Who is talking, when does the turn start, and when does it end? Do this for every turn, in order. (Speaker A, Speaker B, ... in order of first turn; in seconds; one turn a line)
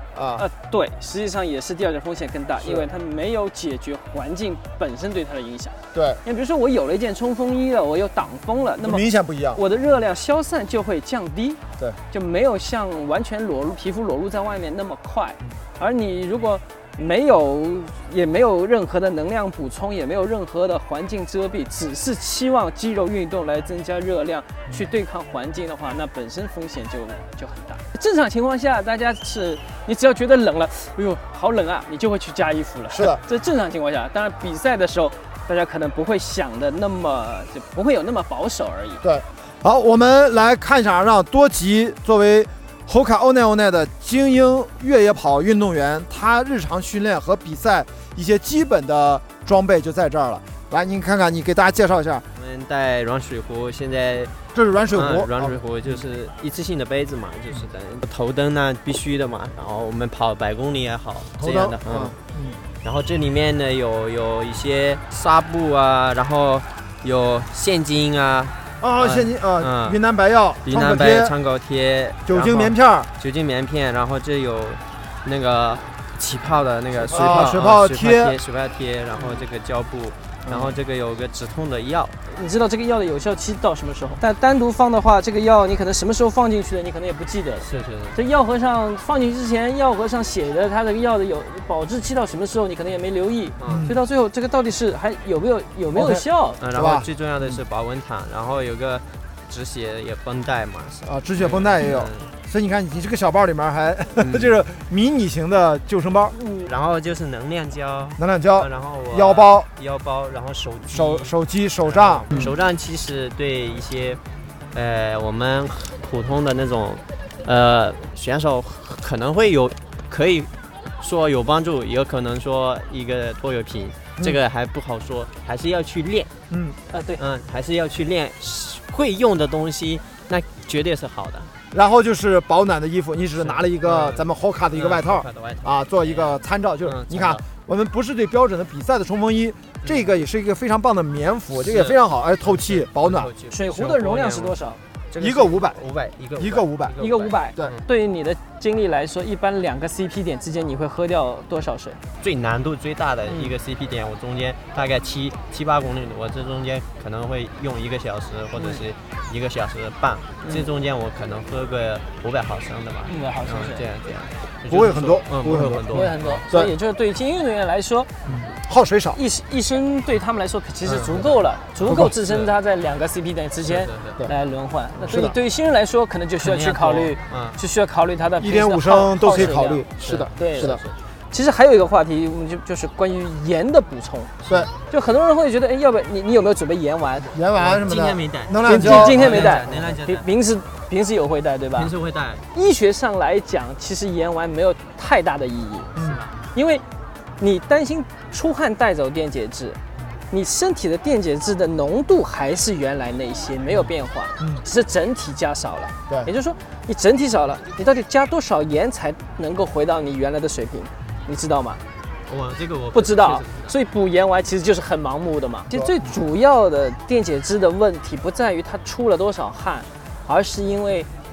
Speaker A: 0.1-0.5
Speaker B: 0.3-39.0
Speaker A: 5.9-6.2
Speaker A: 8.8-9.6
Speaker A: 32.9-33.2
Speaker A: 39.0-52.2
Speaker C: 52.3-54.3
Speaker A: 54.5-55.6
Speaker C: 54.9-62.1
Speaker A: 61.4-62.6
Speaker C: 62.8-70.0
Speaker A: 68.8-71.3
Speaker C: 70.6-82.2
Speaker A: 72.2-73.1
Speaker A: 77.1-78.4
Speaker A: 80.5-80.7
Speaker B: 82.3-96.6
Speaker C: 87.6-88.2
Speaker C: 93.6-93.9
Speaker A: 93.7-94.0
Speaker A: 95.9-97.6
Speaker C: 96.6-102.3
Speaker A: 101.0-106.3
Speaker C: 104.2-104.6
Speaker B: 106.3-106.7
Speaker C: 106.6-114.2
Speaker A: 108.2-109.7
Speaker A: 110.9-112.5
Speaker C: 114.7-126.3
Speaker A: 126.5-126.8
Speaker B: 126.9-127.2
Speaker C: 127.2-131.5
Speaker A: 131.7-143.3
Speaker C: 133.4-137.4
Speaker C: 139.8-140.1
Speaker C: 141.5-147.8
Speaker B: 143.5-144.8
Speaker A: 145.2-145.8
Speaker A: 146.3-146.9
Speaker B: 147.0-152.0
Speaker C: 152.2-166.4
Speaker B: 153.3-153.5
Speaker B: 158.6-158.8
Speaker B: 160.4-160.7
Speaker B: 163.1-163.9
Speaker A: 164.7-166.7
Speaker B: 165.9-168.1
Speaker A: 168.2-169.2
Speaker B: 169.1-184.3
Speaker C: 170.8-172.5
Speaker A: 171.8-172.1
Speaker C: 173.7-174.3
Speaker A: 175.1-175.3
Speaker C: 176.4-177.6
Speaker A: 178.4-180.8
Speaker C: 180.0-180.9
Speaker B: 184.9-187.4
Speaker A: 187.3-189.7
Speaker C: 187.5-190.3
Speaker B: 188.6-191.9
Speaker C: 191.8-192.4
Speaker B: 192.5-195.9
Speaker C: 195.9-196.3
Speaker A: 195.9-196.2
Speaker B: 196.5-196.8
Speaker B: 197.4-199.8
Speaker B: 200.3-211.8
Speaker C: 212.3-213.7
Speaker B: 212.9-221.1
Speaker A: 215.7-216.1